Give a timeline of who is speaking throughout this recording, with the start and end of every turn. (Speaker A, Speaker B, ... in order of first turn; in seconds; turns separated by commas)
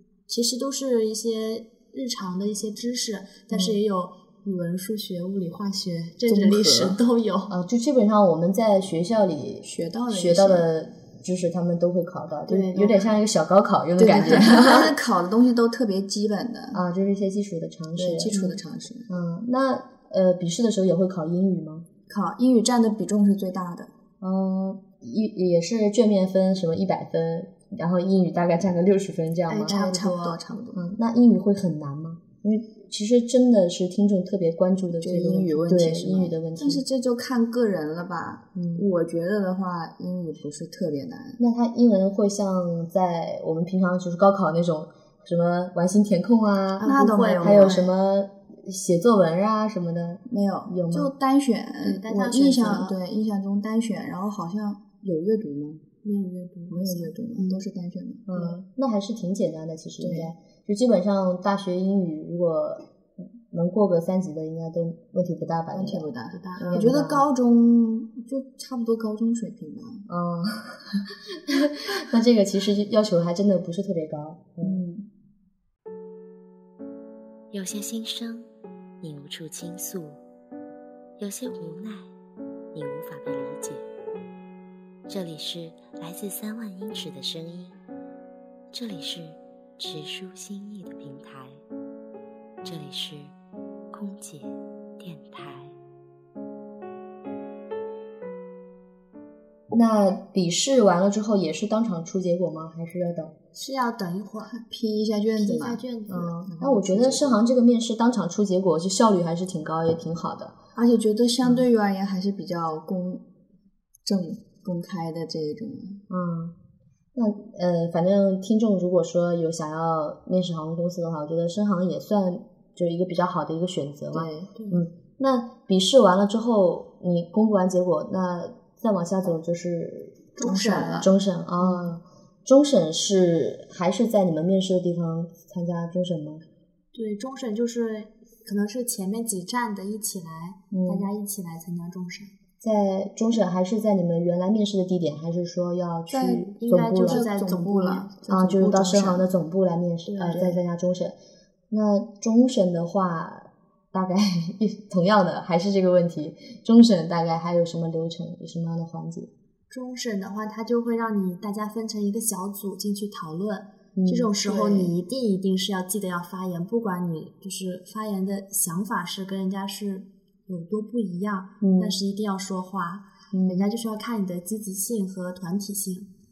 Speaker A: 0.3-7.6, Speaker B: 6.3-7.0, Speaker C: 7.5-14.9, Speaker B: 9.6-10.7, Speaker A: 12.5-13.1, Speaker B: 14.0-16.8, Speaker C: 16.7-18.4, Speaker B: 17.9-19.1, Speaker A: 18.3-18.6, Speaker C: 19.1-21.9, Speaker B: 22.1-23.9, Speaker C: 24.2-29.8, Speaker A: 29.5-30.4, Speaker B: 29.6-30.9, Speaker C: 30.8-36.8, Speaker B: 35.0-41.4, Speaker C: 38.5-38.9, Speaker C: 41.4-46.9, Speaker A: 46.8-47.9, Speaker B: 46.8-47.9, Speaker C: 47.4-51.1, Speaker B: 50.3-55.8, Speaker A: 51.8-53.0, Speaker A: 56.0-57.6, Speaker B: 56.7-58.3, Speaker C: 58.3-62.9, Speaker B: 60.0-60.3, Speaker C: 63.5-66.1, Speaker B: 65.7-70.0, Speaker A: 66.3-66.8, Speaker C: 66.6-67.3, Speaker C: 70.1-74.8, Speaker B: 74.6-75.1, Speaker D: 77.5-78.5, Speaker D: 79.0-80.2, Speaker D: 81.2-82.1, Speaker D: 82.7-83.9, Speaker D: 85.1-87.8, Speaker D: 88.7-91.6, Speaker D: 92.6-93.3, Speaker D: 93.9-95.8, Speaker C: 99.7-103.3, Speaker A: 103.5-104.5, Speaker B: 104.5-105.8, Speaker A: 105.4-106.3, Speaker C: 106.1-110.6, Speaker B: 106.5-107.4, Speaker B: 110.8-113.2, Speaker B: 114.0-116.0, Speaker C: 116.1-116.5, Speaker C: 117.2-136.4, Speaker B: 124.1-124.5, Speaker A: 124.5-124.8, Speaker A: 130.4-131.1, Speaker B: 130.4-131.1, Speaker A: 131.6-131.9, Speaker A: 136.9-142.3, Speaker C: 140.7-141.1, Speaker C: 142.6-147.2, Speaker B: 146.1-146.5, Speaker A: 146.5-149.2, Speaker B: 147.0-148.8, Speaker C: 148.3-151.2, Speaker A: 150.1-150.6, Speaker C: 151.7-159.3, Speaker A: 159.7-176.1, Speaker C: 164.0-164.3, Speaker B: 164.4-164.9, Speaker C: 171.6-172.0, Speaker C: 173.3-173.7